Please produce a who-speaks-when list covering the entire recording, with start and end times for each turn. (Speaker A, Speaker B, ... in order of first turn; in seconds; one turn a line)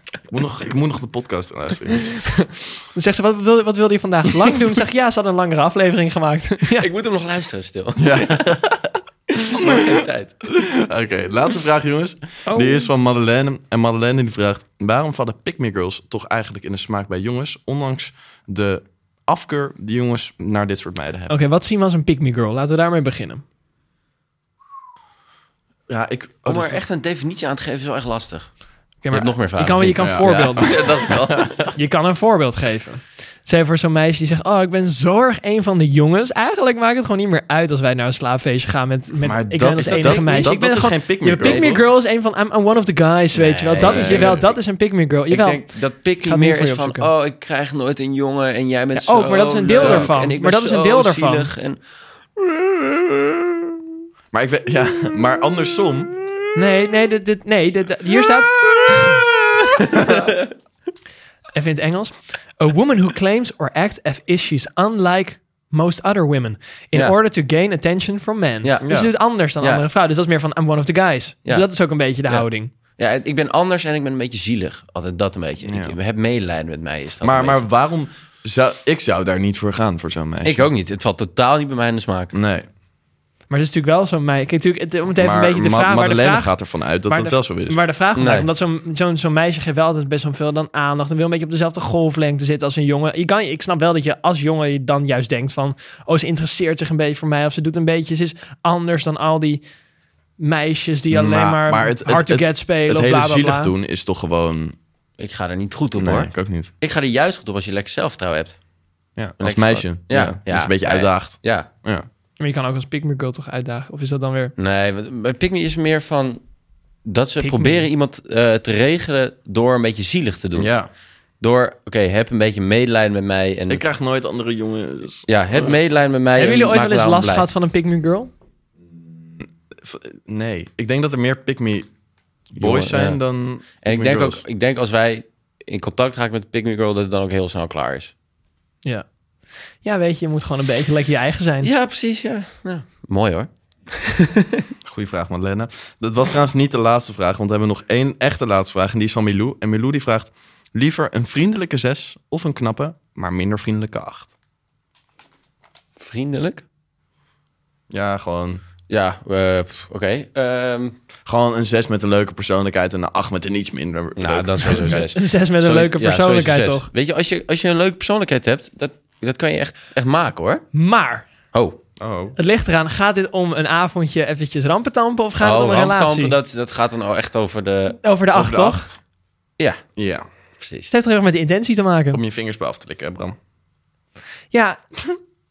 Speaker A: 0.3-2.2
Speaker B: 2.2-6.9
Speaker C: 6.7-8.4
Speaker A: 8.0-9.0
Speaker C: 9.3-10.4
Speaker A: 9.5-9.9
Speaker A: 10.5-21.3
Speaker B: 12.5-12.9
Speaker B: 21.3-23.4
Speaker A: 25.9-26.8
Speaker C: 26.4-28.5
Speaker B: 29.0-30.8
Speaker C: 29.1-31.5
Speaker A: 30.0-31.7
Speaker B: 31.7-47.1
Speaker A: 39.2-41.8
Speaker C: 39.8-40.5
Speaker C: 41.4-41.8
Speaker C: 43.3-44.5
Speaker A: 43.8-44.5
Speaker C: 45.3-51.8
Speaker B: 48.9-51.5
Speaker A: 49.7-50.1
Speaker A: 54.3-56.1
Speaker B: 56.5-59.2
Speaker A: 59.9-60.2
Speaker C: 60.0-60.4
Speaker B: 61.5-72.7
Speaker C: 68.6-68.9
Speaker A: 68.8-69.1
Speaker C: 72.3-77.6
Speaker A: 75.6-76.0
Speaker A: 77.2-80.7
Speaker C: 80.4-82.3
Speaker A: 82.3-82.7
Speaker B: 83.5-86.6
Speaker A: 85.2-87.8
Speaker B: 87.1-99.6
Speaker C: 88.1-88.5
Speaker B: 100.4-103.7
Speaker A: 101.1-104.8
Speaker C: 105.2-108.6
Speaker A: 106.0-106.7
Speaker A: 109.2-112.0
Speaker C: 109.4-111.7
Speaker B: 112.4-114.5
Speaker C: 114.6-116.4
Speaker C: 117.0-120.7
Speaker B: 117.4-117.8
Speaker A: 120.5-120.9
Speaker C: 121.4-123.8
Speaker A: 123.7-125.8
Speaker C: 125.3-127.5
Speaker B: 126.3-128.3
Speaker A: 129.4-131.9
Speaker A: 132.5-134.4
Speaker C: 132.6-133.2
Speaker C: 133.8-138.1
Speaker B: 139.8-141.7
Speaker C: 141.6-144.7
Speaker A: 144.8-154.3
Speaker C: 156.0-156.6
Speaker A: 157.9-158.6
Speaker C: 158.9-161.0
Speaker A: 161.2-165.1
Speaker C: 164.2-170.6
Speaker B: 164.6-166.9
Speaker B: 170.7-171.2
Speaker C: 171.5-171.8
Speaker A: 172.0-172.3
Speaker B: 172.4-176.3
Speaker C: 175.4-178.0
Speaker B: 178.0-178.9
Speaker A: 178.3-179.0
Speaker A: 179.9-180.2
Speaker C: 180.6-180.9
Speaker B: 180.9-182.2
Speaker A: 182.1-183.3
Speaker B: 184.5-184.8